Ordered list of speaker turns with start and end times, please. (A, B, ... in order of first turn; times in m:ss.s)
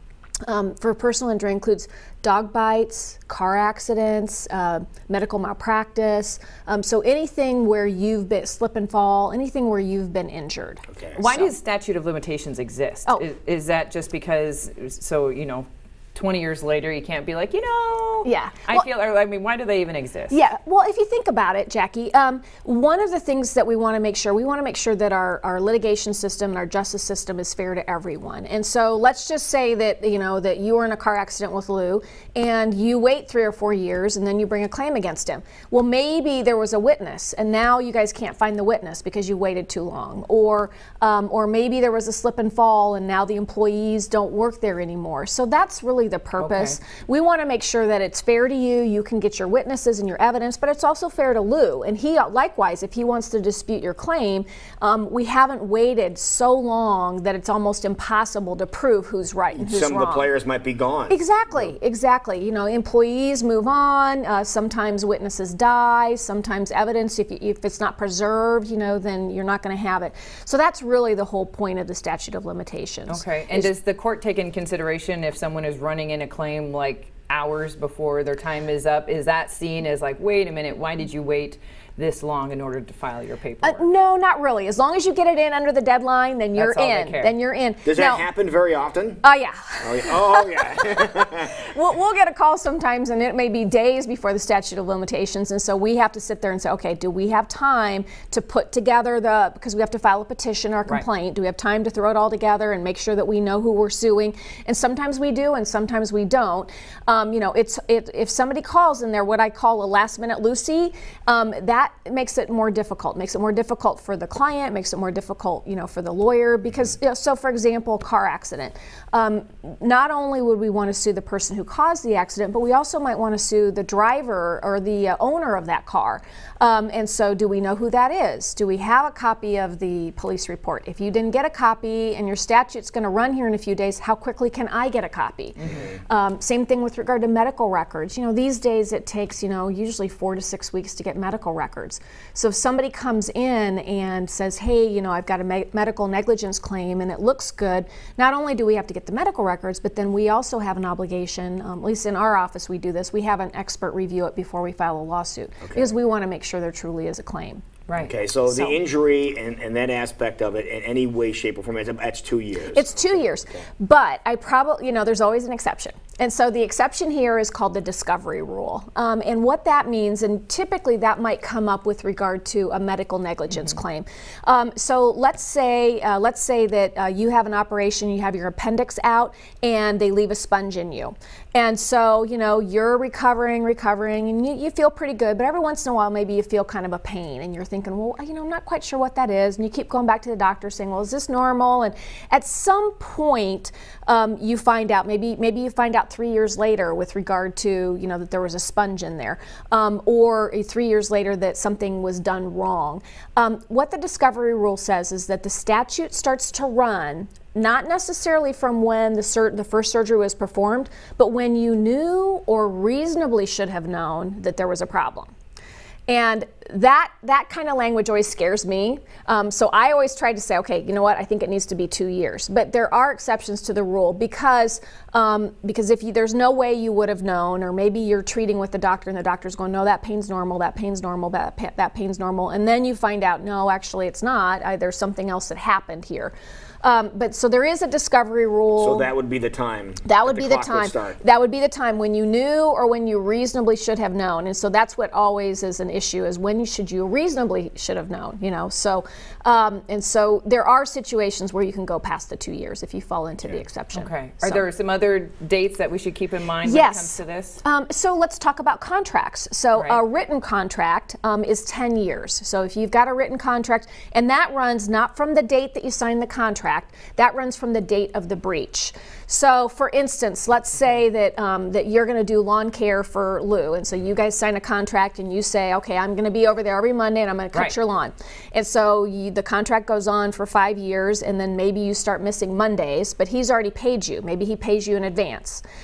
0:00.4-0:11.5 A
0:10.9-0:11.2 B
0:11.2-0:20.4 C
0:18.2-0:18.9 A
0:20.3-1:00.3 A
0:46.4-0:46.8 C
0:59.6-1:01.7 B
1:01.1-1:13.7 A
1:13.1-1:23.8 C
1:23.6-1:28.2 A
1:26.6-1:27.3 C
1:27.8-1:29.2 B
1:29.2-2:37.7 A
1:29.8-1:31.6 B
2:15.6-2:15.9 C
2:15.7-2:15.9 B
2:35.6-2:35.9 B
2:38.0-2:43.6 B
2:38.5-2:38.8 A
2:42.7-3:35.3 A
2:53.5-2:53.8 C
3:36.1-3:59.1 A
3:58.8-4:01.2 B
4:00.0-4:14.7 A
4:13.9-4:17.6 C
4:16.6-4:45.6 A